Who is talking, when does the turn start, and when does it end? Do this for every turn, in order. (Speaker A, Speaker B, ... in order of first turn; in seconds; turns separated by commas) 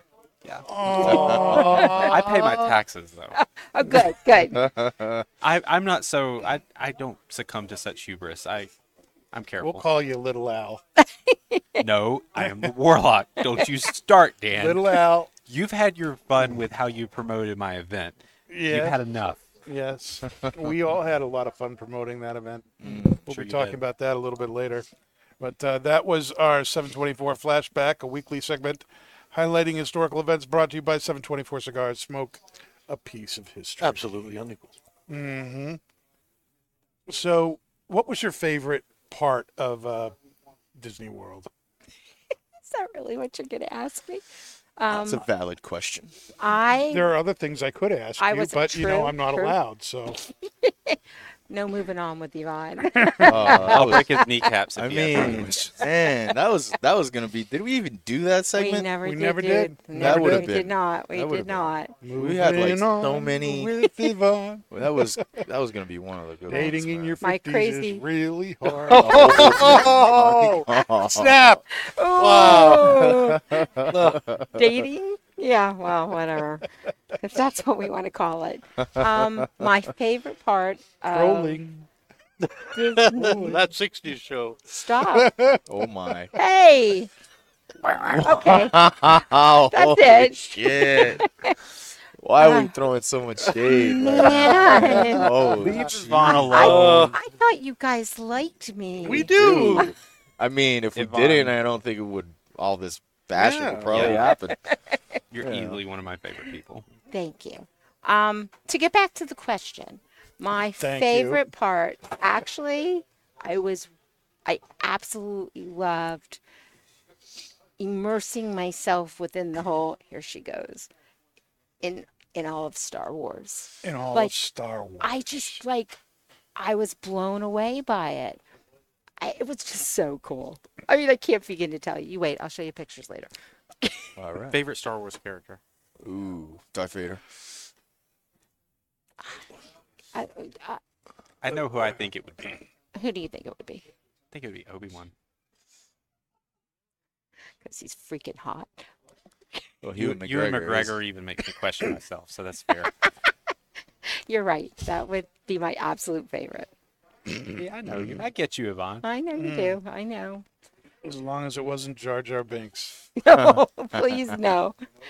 Speaker A: 0.4-3.4, Speaker B: 0.7-2.8, Speaker C: 1.0-2.0, Speaker D: 1.0-1.8, Speaker C: 3.4-4.6, Speaker D: 4.5-5.3, Speaker A: 5.4-8.7, Speaker A: 9.3-9.8, Speaker B: 9.6-10.8, Speaker C: 11.0-11.8, Speaker A: 11.8-19.4, Speaker B: 12.4-12.7, Speaker B: 14.5-15.3, Speaker B: 16.4-16.6, Speaker B: 18.5-19.0, Speaker B: 19.6-24.9, Speaker D: 22.8-23.3, Speaker A: 23.3-23.8, Speaker B: 25.4-34.1, Speaker E: 33.8-34.7, Speaker B: 35.1-35.8, Speaker B: 37.1-40.1, Speaker B: 40.8-41.5, Speaker C: 42.7-44.2, Speaker C: 44.8-45.2, Speaker D: 44.9-46.1, Speaker C: 46.4-47.1, Speaker B: 46.9-50.2, Speaker C: 48.2-49.6, Speaker C: 50.4-54.2, Speaker B: 53.0-53.4, Speaker D: 53.2-54.2, Speaker A: 53.6-55.5, Speaker D: 54.8-58.9, Speaker C: 55.8-56.3, Speaker C: 58.5-61.9, Speaker B: 59.0-60.5, Speaker D: 59.9-63.9, Speaker B: 62.0-65.2, Speaker D: 64.7-67.2, Speaker B: 66.5-69.5, Speaker C: 67.2-68.0, Speaker E: 68.9-71.6, Speaker D: 68.9-71.4, Speaker C: 71.7-73.7, Speaker E: 72.1-73.2, Speaker D: 72.4-74.8, Speaker E: 73.9-74.3, Speaker C: 74.5-76.7, Speaker C: 77.2-81.6, Speaker D: 78.8-79.7, Speaker B: 81.1-81.9, Speaker E: 82.4-84.6, Speaker C: 82.7-83.6, Speaker B: 83.2-83.6, Speaker C: 84.7-85.3, Speaker B: 85.0-85.8, Speaker D: 85.7-86.3, Speaker C: 86.3-87.1, Speaker D: 88.0-91.3, Speaker C: 88.2-88.9, Speaker C: 89.7-91.5, Speaker D: 92.2-96.0, Speaker C: 92.4-92.8, Speaker C: 93.7-95.3, Speaker E: 95.0-97.2, Speaker A: 95.5-97.1, Speaker B: 95.7-96.9, Speaker C: 96.4-99.9, Speaker E: 99.0-99.9, Speaker D: 99.3-104.6, Speaker A: 101.0-101.6, Speaker E: 103.3-104.2, Speaker A: 103.9-104.3, Speaker C: 104.3-105.0, Speaker A: 105.3-106.9, Speaker D: 105.4-105.8, Speaker C: 107.1-113.9, Speaker B: 110.8-111.5, Speaker C: 114.5-116.4, Speaker C: 117.8-120.9, Speaker C: 121.8-124.4, Speaker B: 123.8-125.6, Speaker C: 125.0-126.0, Speaker C: 126.5-128.4, Speaker C: 129.2-134.1, Speaker D: 134.2-134.6, Speaker A: 134.5-135.6, Speaker D: 136.0-137.2, Speaker C: 139.2-139.4, Speaker C: 140.1-140.8, Speaker A: 141.4-142.6, Speaker C: 142.9-143.9, Speaker A: 144.3-145.1, Speaker C: 147.6-148.8, Speaker D: 149.8-151.0, Speaker A: 150.0-152.9, Speaker C: 154.1-156.7, Speaker A: 157.6-159.1, Speaker D: 157.9-158.2, Speaker C: 159.0-160.4, Speaker B: 159.4-159.8, Speaker B: 161.0-163.1, Speaker C: 163.2-164.8